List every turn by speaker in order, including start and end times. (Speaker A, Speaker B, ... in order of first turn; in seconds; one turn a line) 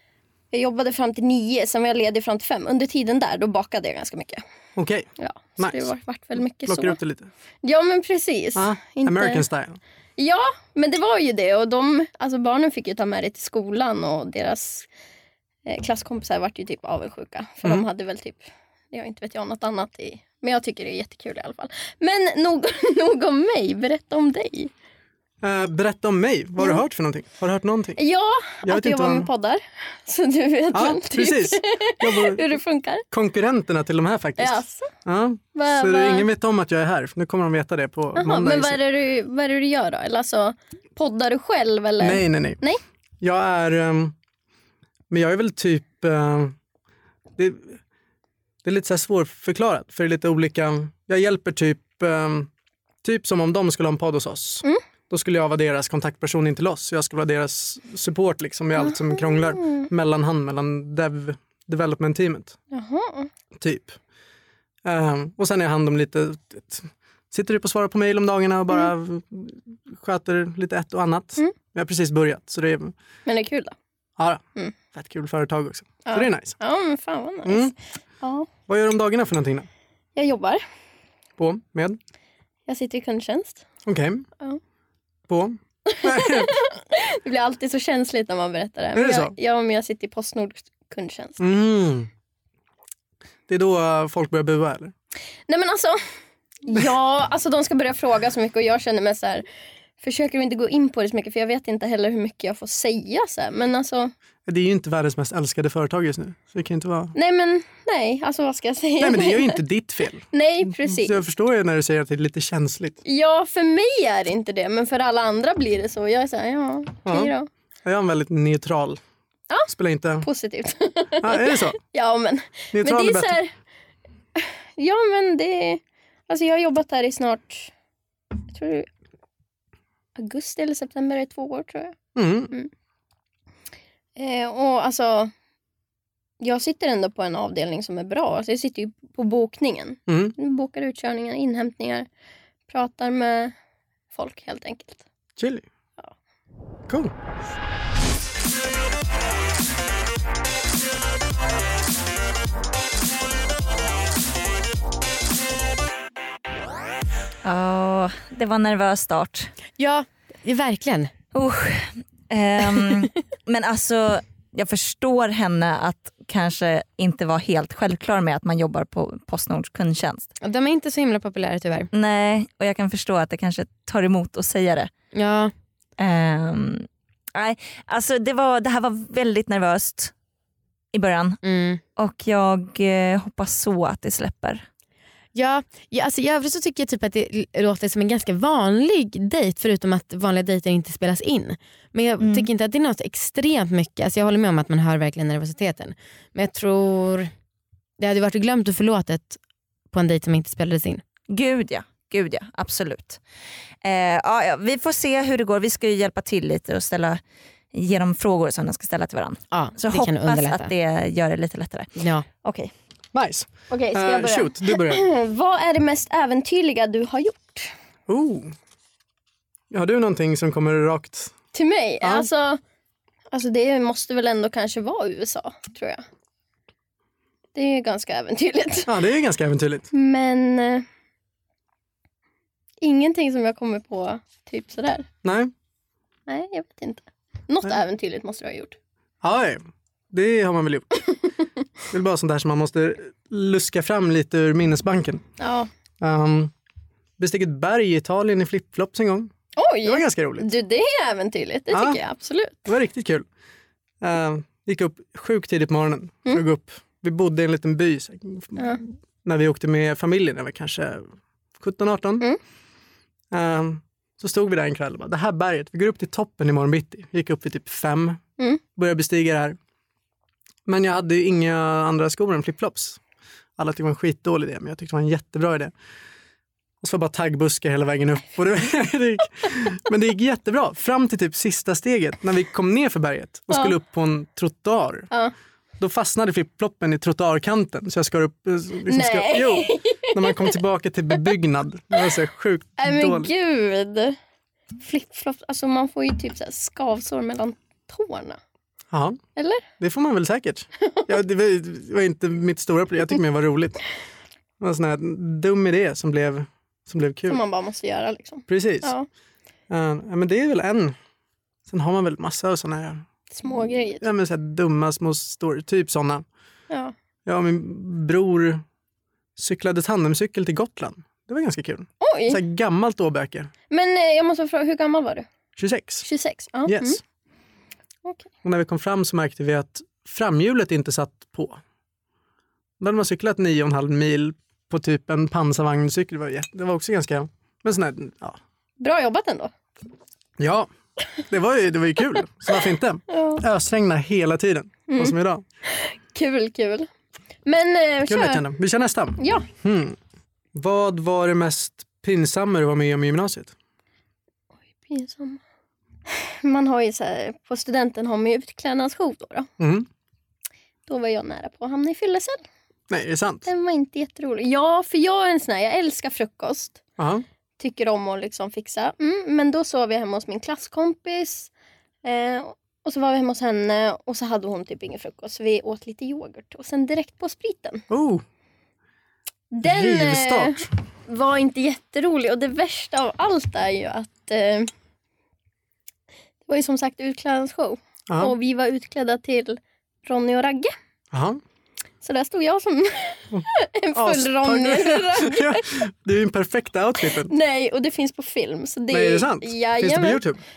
Speaker A: 0.5-4.4
Speaker B: 4.8-5.1
Speaker A: 5.2-7.0
Speaker B: 5.6-5.9
Speaker B: 6.6-7.3
Speaker A: 7.6-9.4
Speaker B: 8.6-9.8
Speaker A: 10.2-14.9
Speaker A: 15.7-24.7
Speaker B: 25.4-28.0
Speaker A: 28.0-33.0
Speaker B: 28.6-29.3
Speaker B: 30.7-32.4
Speaker B: 33.1-38.8
Speaker A: 34.4-34.9
Speaker A: 35.5-36.3
Speaker A: 38.1-42.8
Speaker B: 42.0-42.6
Speaker B: 43.2-44.1
Speaker B: 45.1-46.5
Speaker B: 47.4-47.8
Speaker B: 48.6-52.5
Speaker B: 53.0-62.5
Speaker A: 58.8-59.9
Speaker A: 62.7-63.3
Speaker B: 63.6-64.0
Speaker B: 64.8-72.9
Speaker A: 73.2-73.7
Speaker B: 74.2-76.6
Speaker A: 76.0-78.5
Speaker B: 77.4-77.7
Speaker B: 78.7-79.7
Speaker A: 80.2-80.6
Speaker B: 81.4-82.0
Speaker A: 82.7-83.7
Speaker B: 83.8-84.2
Speaker B: 85.3-86.5
Speaker A: 85.9-91.4
Speaker B: 88.9-89.3
Speaker B: 91.4-92.1
Speaker B: 93.5-94.9
Speaker A: 95.5-96.0
Speaker A: 96.6-99.4
Speaker A: 100.0-104.1
Speaker B: 104.5-107.1
Speaker A: 107.1-109.6
Speaker B: 109.0-110.3
Speaker A: 110.3-111.2
Speaker B: 110.8-113.0
Speaker A: 113.0-117.5
Speaker B: 117.0-117.3
Speaker B: 117.8-119.0
Speaker B: 119.7-120.2
Speaker A: 120.2-123.5
Speaker B: 121.2-121.8
Speaker B: 122.7-123.3
Speaker A: 124.3-127.7
Speaker A: 128.5-128.9
Speaker A: 130.2-132.0
Speaker B: 132.2-132.5
Speaker A: 134.2-135.3
Speaker A: 136.4-142.1
Speaker B: 140.1-140.3
Speaker A: 142.7-143.5
Speaker A: 144.1-145.0
Speaker B: 145.4-145.6
Speaker C: 157.4-159.5
Speaker D: 159.8-161.1
Speaker C: 161.3-170.3
Speaker D: 170.4-171.9
Speaker C: 171.9-174.9
Speaker D: 175.1-175.5
Speaker C: 176.0-180.1
Speaker C: 180.9-181.4
Speaker D: 181.4-181.8
Speaker C: 181.9-184.6
Speaker D: 185.3-197.3
Speaker C: 192.2-192.5
Speaker D: 198.0-199.4
Speaker D: 199.9-201.0
Speaker C: 201.3-203.2
Speaker C: 203.8-207.2
Speaker C: 207.7-212.7
Speaker D: 209.5-210.7
Speaker D: 212.0-212.2
Speaker B: 213.1-215.0
Speaker A: 213.7-217.7
Speaker B: 218.1-218.5
Speaker B: 219.7-221.3
Speaker A: 221.5-222.6
Speaker A: 223.3-226.0
Speaker A: 227.5-229.0
Speaker B: 228.9-229.9
Speaker A: 229.9-230.8
Speaker A: 232.8-235.1
Speaker B: 235.2-235.5
Speaker A: 236.3-238.7
Speaker B: 239.2-241.0
Speaker B: 241.9-245.2
Speaker A: 245.4-245.7
Speaker B: 246.0-246.5
Speaker B: 247.2-249.3
Speaker A: 249.6-252.7
Speaker B: 249.8-250.5
Speaker B: 251.7-252.0
Speaker B: 252.7-253.3
Speaker B: 254.0-261.1
Speaker A: 258.6-258.8
Speaker B: 261.6-262.3
Speaker B: 263.3-268.2
Speaker B: 268.7-269.6
Speaker B: 270.7-273.0
Speaker B: 273.6-275.7
Speaker B: 276.8-285.1
Speaker B: 285.8-293.3
Speaker A: 288.9-290.6
Speaker A: 292.8-294.2
Speaker A: 294.8-298.4
Speaker B: 298.9-299.2
Speaker A: 299.4-299.6
Speaker B: 299.8-303.8
Speaker B: 304.6-307.4
Speaker A: 307.3-309.1
Speaker B: 308.5-308.9
Speaker B: 309.7-310.9
Speaker B: 311.7-313.0
Speaker A: 313.3-314.1
Speaker B: 314.0-316.2
Speaker B: 317.2-318.6
Speaker B: 319.4-323.5
Speaker A: 322.0-322.4
Speaker A: 323.7-325.3
Speaker B: 325.6-326.1
Speaker A: 326.0-327.0
Speaker B: 326.6-327.0
Speaker B: 328.4-331.6
Speaker B: 332.8-338.4
Speaker A: 338.8-339.5
Speaker B: 340.4-340.7
Speaker B: 341.3-345.4
Speaker A: 343.1-343.4
Speaker A: 344.9-345.1
Speaker A: 345.7-346.9
Speaker A: 347.4-348.4
Speaker B: 348.1-350.0
Speaker A: 349.2-349.5
Speaker B: 350.5-353.5
Speaker A: 354.8-355.4
Speaker A: 356.1-359.5
Speaker B: 359.6-359.9
Speaker A: 360.9-362.4
Speaker B: 362.9-363.5
Speaker A: 363.4-366.8
Speaker B: 367.0-367.2
Speaker A: 367.6-371.5
Speaker A: 372.0-377.8
Speaker B: 377.9-378.2
Speaker A: 379.5-384.7
Speaker B: 379.6-380.7
Speaker A: 386.5-390.7
Speaker B: 391.1-391.4
Speaker A: 392.0-395.6
Speaker B: 393.3-397.3
Speaker A: 397.0-400.2
Speaker B: 398.9-400.4